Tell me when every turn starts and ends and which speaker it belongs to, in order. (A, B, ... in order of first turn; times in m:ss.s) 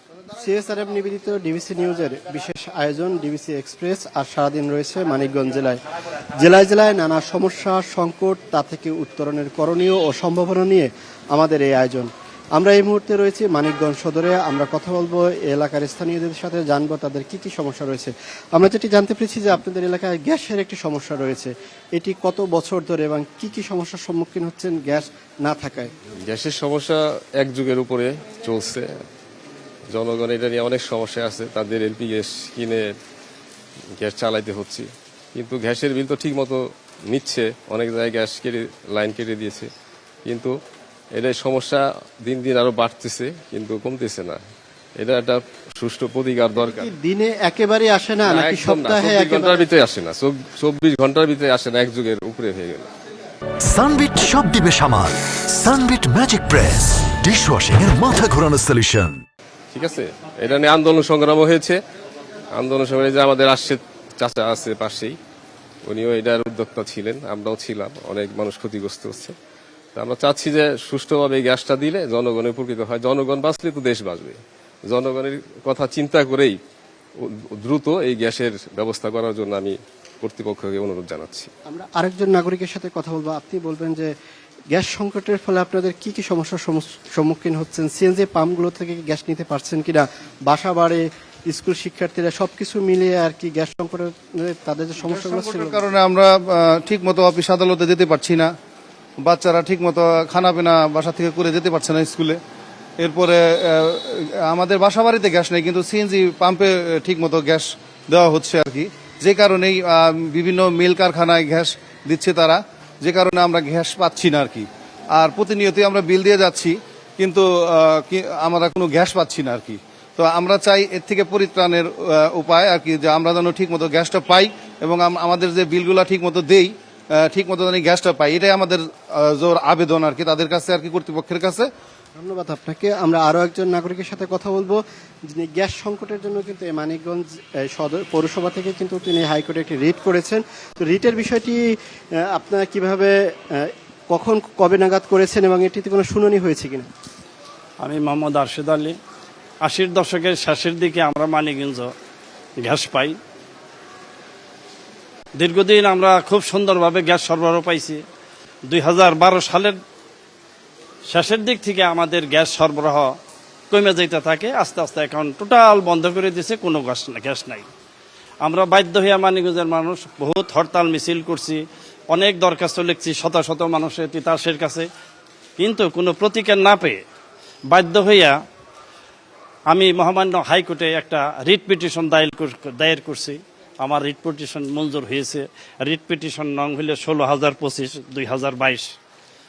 0:00.4-0:05.8 A
0:06.4-0:25.9 A
0:26.2-0:28.9 B
0:29.9-0:32.8 B
0:34.0-0:39.7 B
0:40.3-0:40.5 B
0:41.2-0:44.4 B
0:45.0-0:46.9 B
0:46.6-0:49.7 A
0:48.3-0:52.9 B
0:53.6-0:59.2 C
0:59.7-1:01.8 B
1:02.6-1:05.2 B
1:05.8-1:09.3 B
1:10.0-1:14.4 B
1:14.9-1:16.6 B
1:17.2-1:21.5 B
1:21.7-1:24.1 A
1:24.7-1:35.9 A
1:35.1-1:38.5 D
1:39.2-1:42.4 D
1:43.0-2:06.7 D
2:07.3-2:11.7 D
2:12.2-2:21.6 A
2:22.3-2:26.9 A
2:27.8-2:29.0 E
2:29.6-2:31.9 E
2:32.6-2:33.2 E
2:35.4-2:38.0 E
2:38.7-2:39.8 E
2:41.1-2:43.1 E
2:43.7-2:47.7 E
2:48.4-2:51.6 E
2:52.1-2:54.9 E
2:55.6-2:57.0 E
2:57.7-2:58.4 E
2:59.7-3:08.9 E